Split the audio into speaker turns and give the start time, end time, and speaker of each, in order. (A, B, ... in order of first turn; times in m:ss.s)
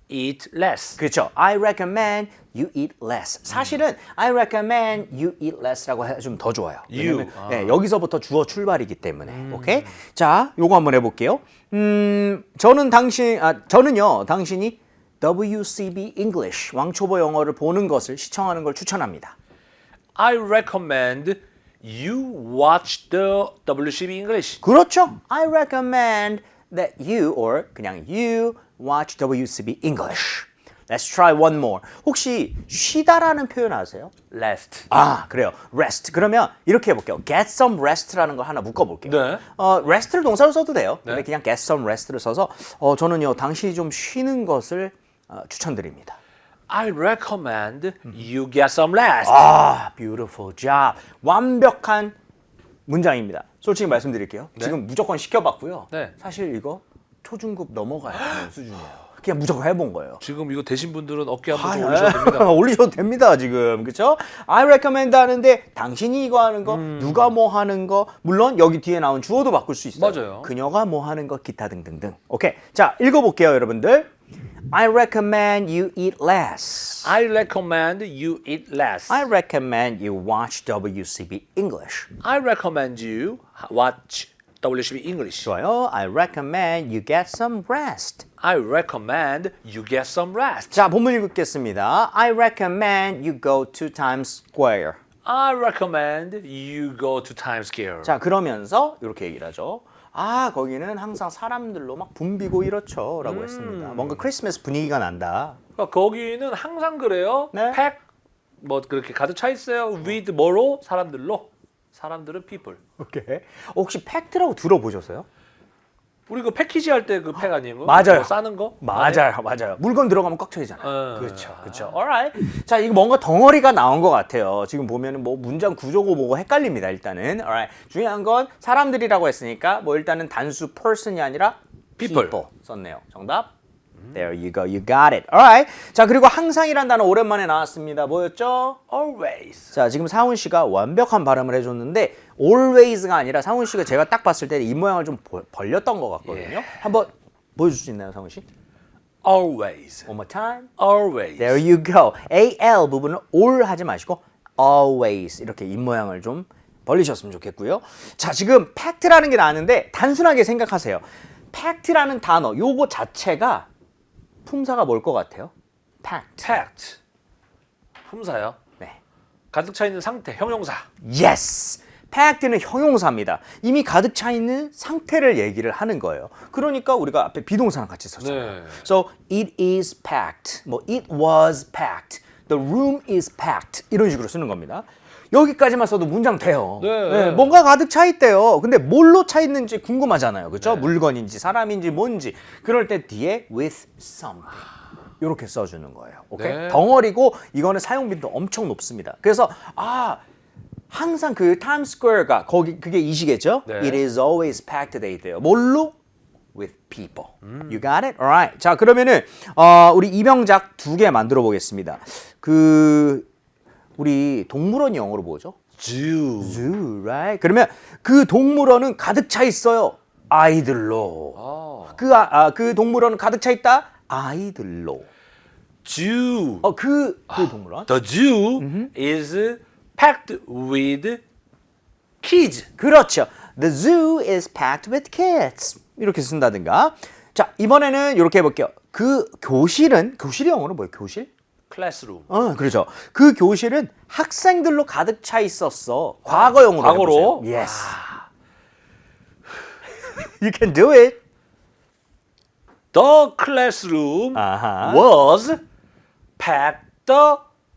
0:00.1-0:01.0 A
0:01.0-0:19.3 B
0:03.5-0:03.8 A
0:06.9-0:07.8 A
0:09.2-0:09.9 A
0:20.2-0:24.6 A
0:24.6-0:34.1 B
0:34.3-0:34.9 A
0:34.9-0:46.2 B
0:39.0-0:39.4 A
0:46.7-0:49.5 A
0:49.2-0:52.1 B
0:52.9-1:00.2 B
0:58.1-0:58.5 A
1:00.2-1:02.5 A
1:01.5-1:14.1 B
1:06.6-1:07.3 A
1:10.0-1:10.5 A
1:14.7-1:17.1 B
1:17.0-1:19.3 A
1:19.1-1:22.1 B
1:22.2-1:25.5 A
1:25.4-1:28.2 B
1:28.4-1:30.8 A
1:30.7-1:35.0 B
1:35.2-1:38.1 A
1:38.0-1:45.6 B
1:43.2-1:44.3 A
1:45.8-1:48.0 A
1:47.5-1:47.8 B
1:48.6-1:52.8 A
1:53.0-1:55.2 B
1:56.3-1:59.2 A
1:57.8-2:13.5 B
2:00.8-2:02.0 A
2:12.0-2:12.4 A
2:14.1-2:18.8 B
2:18.9-2:19.7 A
2:19.7-2:28.4 B
2:26.2-2:26.8 A
2:29.2-2:30.1 A
2:30.1-2:30.7 B
2:30.8-2:31.6 A
2:31.4-2:43.7 B
2:44.4-2:45.5 B
2:46.0-2:46.6 B
2:46.4-2:47.0 A
2:48.0-2:48.6 A
2:49.5-2:50.8 A
2:51.0-3:14.7 B
2:58.2-2:58.8 A
3:06.8-3:07.6 A
3:10.6-3:10.9 A
3:15.2-3:20.2 B
3:16.4-3:16.8 A
3:20.9-3:26.0 B
3:23.6-3:24.0 A
3:26.5-3:33.3 B
3:27.4-3:27.8 A
3:34.0-3:35.6 B
3:35.8-3:36.6 A
3:36.4-3:41.4 B
3:41.4-3:42.0 A
3:41.9-3:45.1 B
3:45.8-3:46.7 A
3:46.6-3:47.9 B
3:47.3-3:51.2 A
3:48.6-3:48.9 B
3:52.2-3:52.7 A
3:52.8-4:01.3 B
4:01.7-4:02.3 A
4:02.3-4:08.0 B
4:06.2-4:08.2 A
4:10.1-4:11.2 B
4:12.9-4:15.6 A
4:14.3-4:15.0 B
4:16.4-4:17.4 A